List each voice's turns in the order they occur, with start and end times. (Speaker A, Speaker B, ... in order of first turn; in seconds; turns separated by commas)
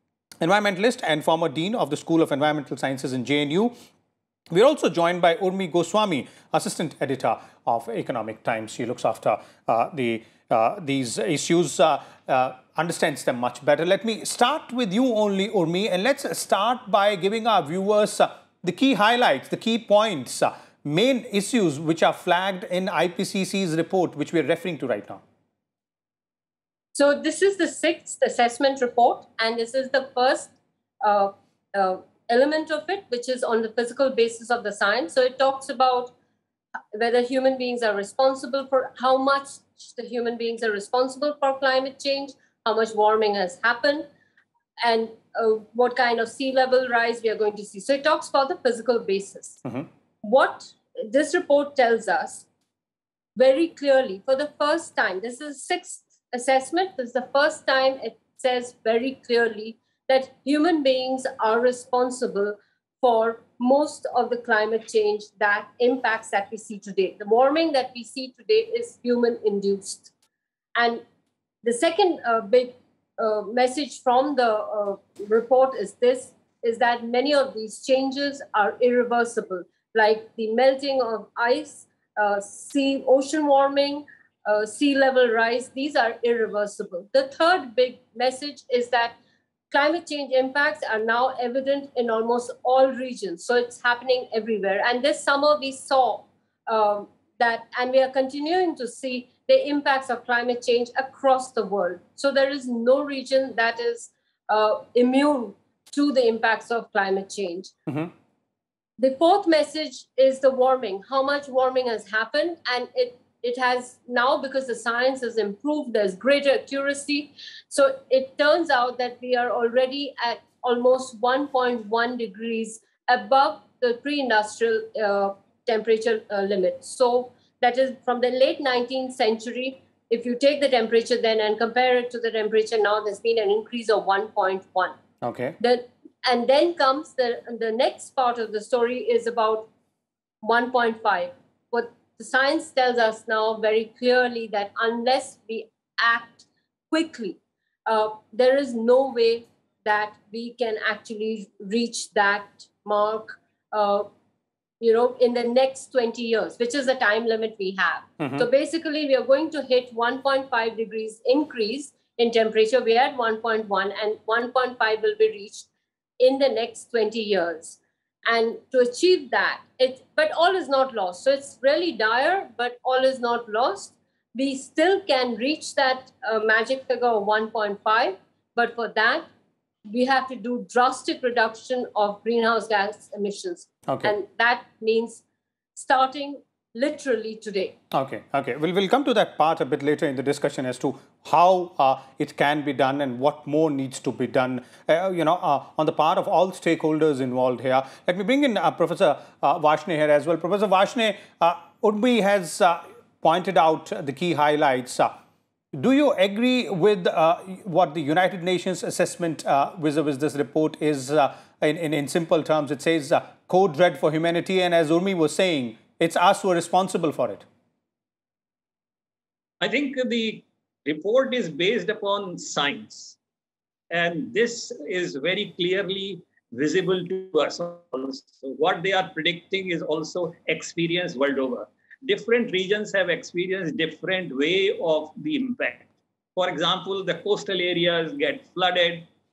Speaker A: 0.4-3.7, Speaker A: 4.5-25.2, Speaker B: 26.9-36.1, Speaker B: 36.9-44.1, Speaker B: 44.8-49.6, Speaker B: 50.2-52.5, Speaker B: 53.4-70.1, Speaker B: 70.7-71.0, Speaker B: 71.6-89.2, Speaker B: 89.7-107.7, Speaker B: 109.0-134.9, Speaker A: 135.2-135.6, Speaker B: 135.6-139.7, Speaker B: 140.4-154.1, Speaker B: 154.8-165.7, Speaker A: 158.2-158.4, Speaker B: 166.2-179.3, Speaker B: 179.8-185.2, Speaker A: 183.9-184.1, Speaker B: 185.7-187.8, Speaker A: 187.9-205.1, Speaker A: 205.7-217.4, Speaker C: 219.6-223.2, Speaker C: 223.9-239.1